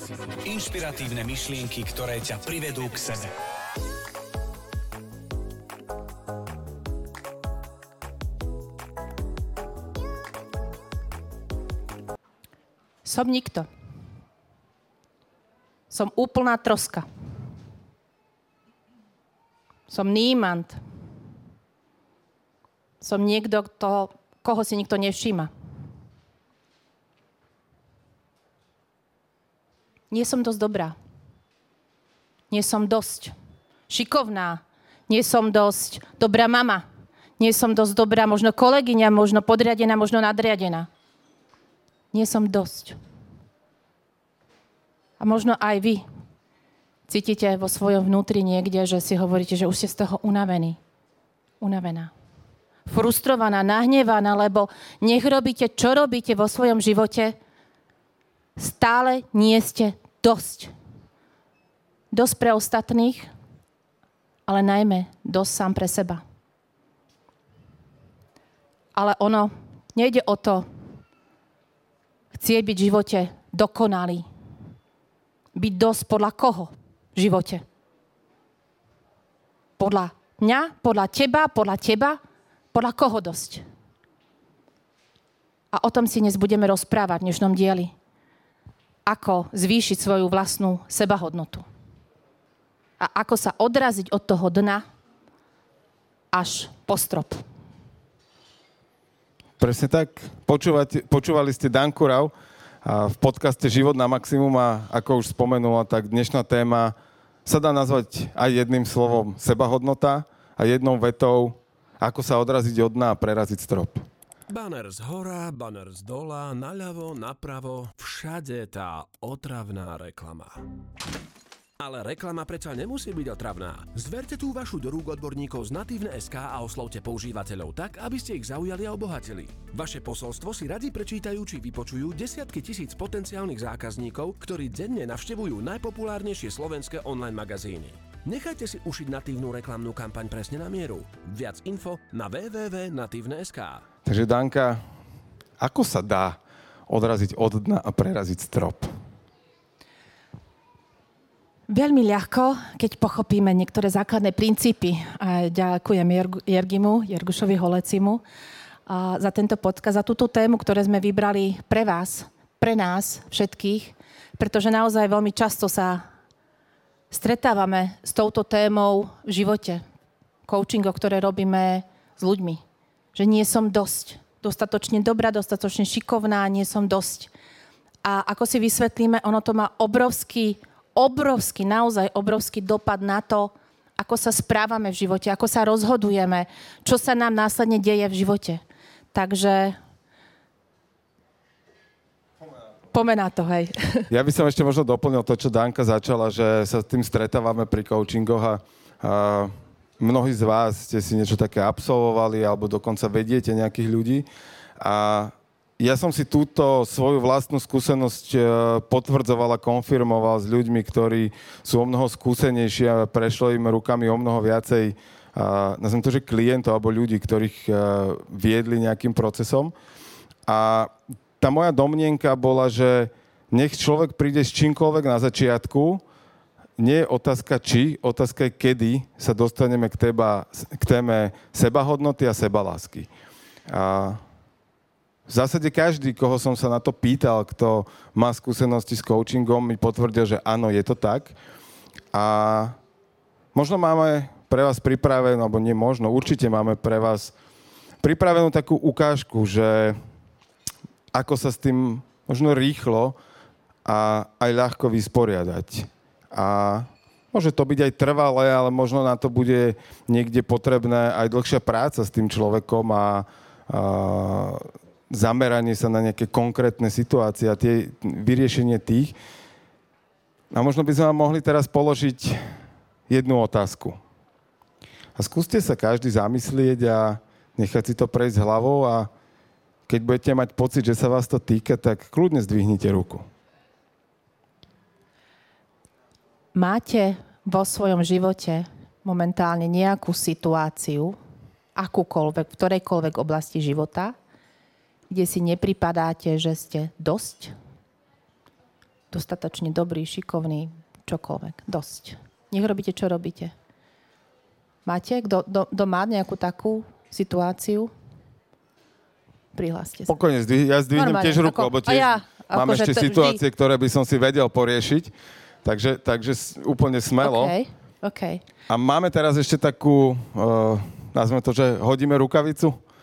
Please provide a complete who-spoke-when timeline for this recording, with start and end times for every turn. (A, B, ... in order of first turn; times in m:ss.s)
0:00.4-0:03.3 A
0:13.0-0:13.7 B
0:15.9-0:17.0 B
0:19.9-0:20.8 B
0:23.0-0:25.5 B
0:30.1-0:31.0 B
0:32.5-0:33.3 B
0:33.9-0:36.8 B
0:37.4-0:40.9 B
0:42.1-0:43.0 B
0:45.2-0:46.0 B
0:47.1-0:50.8 B
0:51.6-0:52.1 B
0:52.9-0:57.4 B
0:58.6-1:00.7 B
1:02.1-1:03.3 B
1:04.5-1:06.2 B
1:09.0-1:10.6 B
1:12.3-1:14.3 B
1:15.6-1:17.6 B
1:19.8-1:22.2 B
1:22.7-1:23.6 B
1:25.7-1:27.9 B
1:29.1-1:31.6 B
1:33.0-1:34.8 B
1:36.3-1:37.4 B
1:39.6-1:42.3 C
1:42.8-1:47.0 C
1:47.5-1:54.0 C
1:54.5-2:00.6 D
2:01.8-2:23.8 D
2:24.0-2:24.8 C
2:25.6-2:28.9 C
2:31.7-2:38.2 B
2:38.9-2:46.0 B
2:47.1-2:49.8 B
2:50.5-2:52.6 B
2:53.2-2:57.3 B
2:58.0-3:08.6 B
3:09.1-3:09.8 B
3:12.9-3:14.1 B
3:14.1-3:24.3 C
3:24.8-3:39.7 C
3:40.5-3:46.0 C
3:46.8-3:53.1 C
3:53.7-3:54.2 C
3:55.3-4:01.4 C
4:02.1-4:02.8 C
4:03.5-4:07.3 C
4:08.0-4:10.0 C
4:11.1-4:13.2 C
4:13.8-4:29.2 C
4:30.5-4:32.4 C
4:33.1-4:34.0 C
4:35.2-4:39.1 C
4:39.9-4:43.3 C
4:46.6-4:51.2 B
4:51.8-4:54.2 B
4:55.1-4:57.5 B
4:59.1-5:03.5 B
5:04.9-5:07.9 B
5:09.6-5:10.1 B
5:10.1-5:15.1 C
5:10.9-5:13.4 B
5:15.6-5:17.5 C
5:17.2-5:18.4 B
5:18.7-5:22.8 C